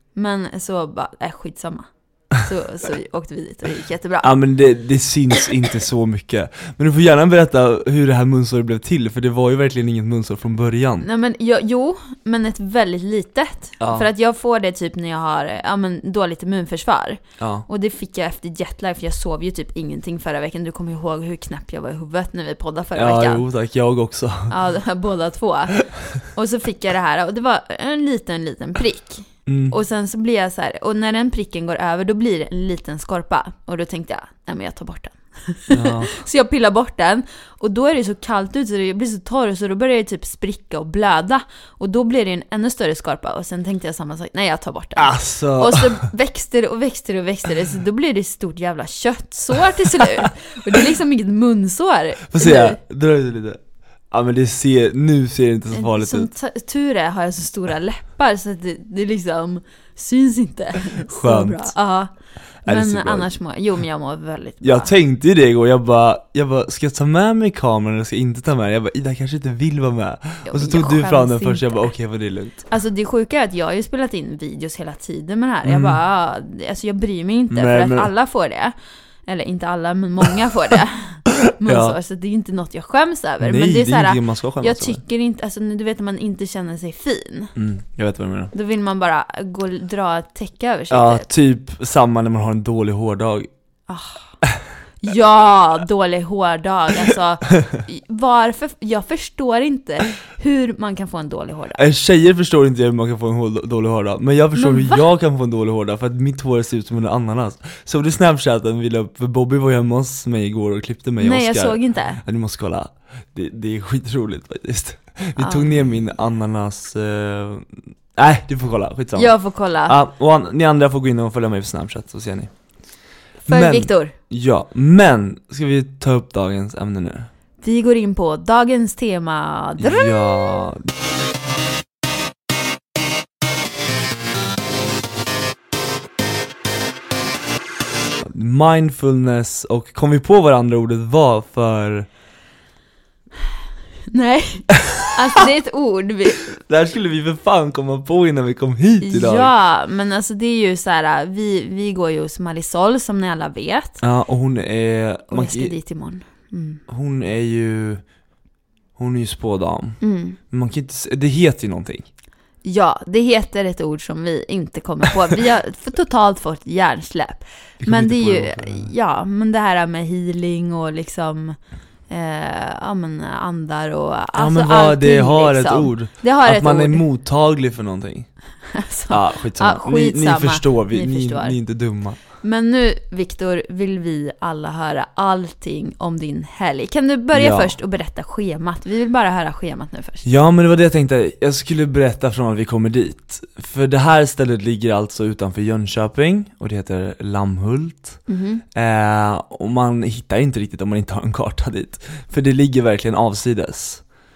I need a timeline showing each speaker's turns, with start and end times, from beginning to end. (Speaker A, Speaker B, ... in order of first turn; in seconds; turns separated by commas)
Speaker A: 0.1-4.3, Speaker B: 4.2-11.1, Speaker A: 11.0-23.4, Speaker B: 13.8-14.1, Speaker B: 17.4-17.6, Speaker B: 22.9-24.5, Speaker A: 24.5-52.8, Speaker B: 29.5-29.7, Speaker B: 35.7-36.1, Speaker B: 45.0-46.1, Speaker B: 52.3-56.3, Speaker A: 55.7-64.9, Speaker B: 60.9-61.7, Speaker B: 62.6-63.3, Speaker B: 64.6-72.6, Speaker A: 70.4-71.9, Speaker A: 72.7-78.7, Speaker B: 75.6-76.0, Speaker B: 77.5-78.1, Speaker A: 79.2-87.5, Speaker B: 81.4-82.0, Speaker B: 83.4-85.0, Speaker B: 87.5-88.5, Speaker A: 88.5-91.3, Speaker B: 90.9-93.5, Speaker A: 93.9-94.3, Speaker A: 95.0-101.8, Speaker B: 101.7-119.3, Speaker A: 104.5-105.0, Speaker A: 111.2-112.2, Speaker A: 115.4-115.9, Speaker A: 119.1-120.0, Speaker B: 119.9-122.5, Speaker A: 123.5-124.1, Speaker B: 123.5-127.3, Speaker A: 127.6-130.5, Speaker B: 129.8-130.8, Speaker B: 138.2-142.1, Speaker A: 144.1-146.5, Speaker B: 146.5-149.5, Speaker A: 149.0-154.0, Speaker B: 154.0-155.7, Speaker A: 155.3-156.8, Speaker B: 156.9-158.0, Speaker B: 158.9-162.1, Speaker A: 160.0-160.4, Speaker A: 162.6-171.6, Speaker B: 167.8-168.9, Speaker A: 172.1-177.0, Speaker B: 174.3-178.3, Speaker A: 178.7-181.6, Speaker B: 179.1-182.2, Speaker A: 182.4-190.2, Speaker B: 187.3-187.7, Speaker B: 190.2-198.2, Speaker A: 198.3-198.6, Speaker B: 198.7-204.0